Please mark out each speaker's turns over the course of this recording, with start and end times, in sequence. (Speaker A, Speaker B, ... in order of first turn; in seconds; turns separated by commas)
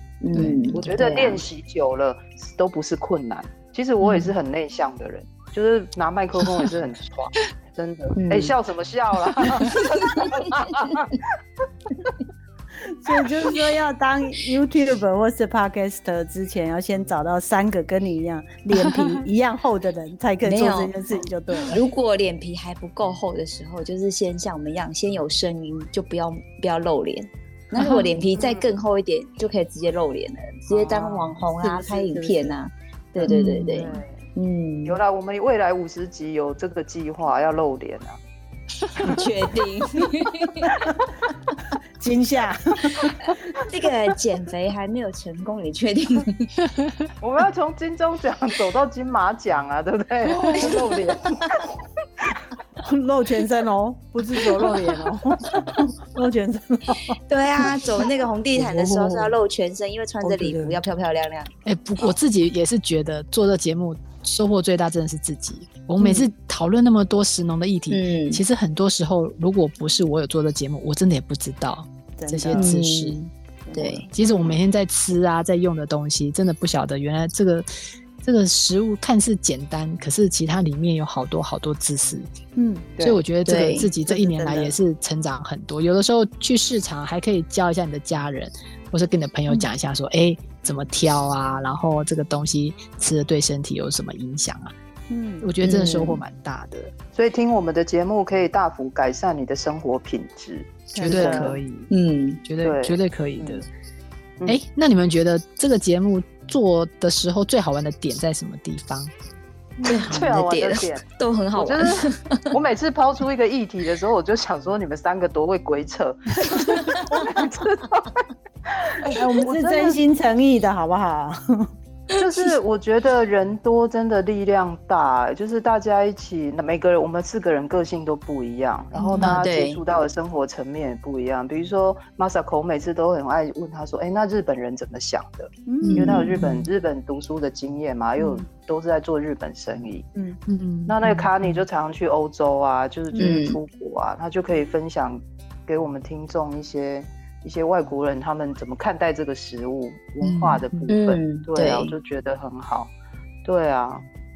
Speaker A: 0.2-1.4, Speaker B: 0.3-0.9, Speaker C: 0.8-11.2, Speaker B: 4.0-4.3, Speaker A: 8.2-8.5, Speaker D: 12.9-21.8, Speaker A: 20.4-20.9, Speaker A: 21.6-35.0, Speaker B: 27.8-28.1, Speaker C: 28.4-28.6, Speaker D: 30.7-32.6, Speaker C: 33.2-34.2, Speaker B: 33.3-33.9, Speaker C: 34.9-38.2, Speaker A: 39.0-40.7, Speaker D: 42.0-43.2, Speaker A: 43.7-46.5, Speaker C: 47.2-51.7, Speaker B: 50.3-50.8, Speaker D: 52.8-57.2, Speaker A: 57.3-61.5, Speaker D: 58.5-59.3, Speaker D: 60.2-60.8, Speaker B: 61.6-73.2, Speaker A: 67.9-68.4, Speaker D: 72.2-72.7, Speaker A: 72.5-74.1, Speaker D: 73.7-74.1, Speaker B: 74.1-77.7, Speaker C: 74.2-74.6, Speaker B: 78.2-82.3, Speaker D: 82.6-82.9, Speaker B: 83.0-94.7, Speaker A: 83.5-83.9, Speaker D: 84.1-84.8, Speaker D: 95.1-95.5, Speaker B: 95.4-96.9, Speaker A: 95.6-96.2, Speaker C: 97.1-101.6, Speaker D: 100.9-101.5, Speaker B: 101.0-101.9, Speaker A: 101.9-102.4, Speaker B: 102.5-103.7, Speaker C: 102.6-103.6, Speaker B: 104.5-109.1, Speaker D: 109.8-110.1, Speaker C: 109.9-111.0, Speaker A: 109.9-112.6, Speaker C: 111.6-120.0, Speaker D: 119.2-121.7, Speaker A: 122.2-122.4, Speaker C: 122.2-140.1, Speaker D: 129.0-129.3, Speaker A: 129.2-129.8, Speaker D: 135.7-136.2, Speaker A: 135.8-136.4, Speaker B: 136.3-136.7, Speaker D: 138.2-138.4, Speaker B: 140.5-141.6, Speaker C: 140.9-152.9, Speaker A: 143.2-143.6, Speaker B: 150.2-150.9, Speaker A: 150.9-151.9, Speaker C: 153.4-154.0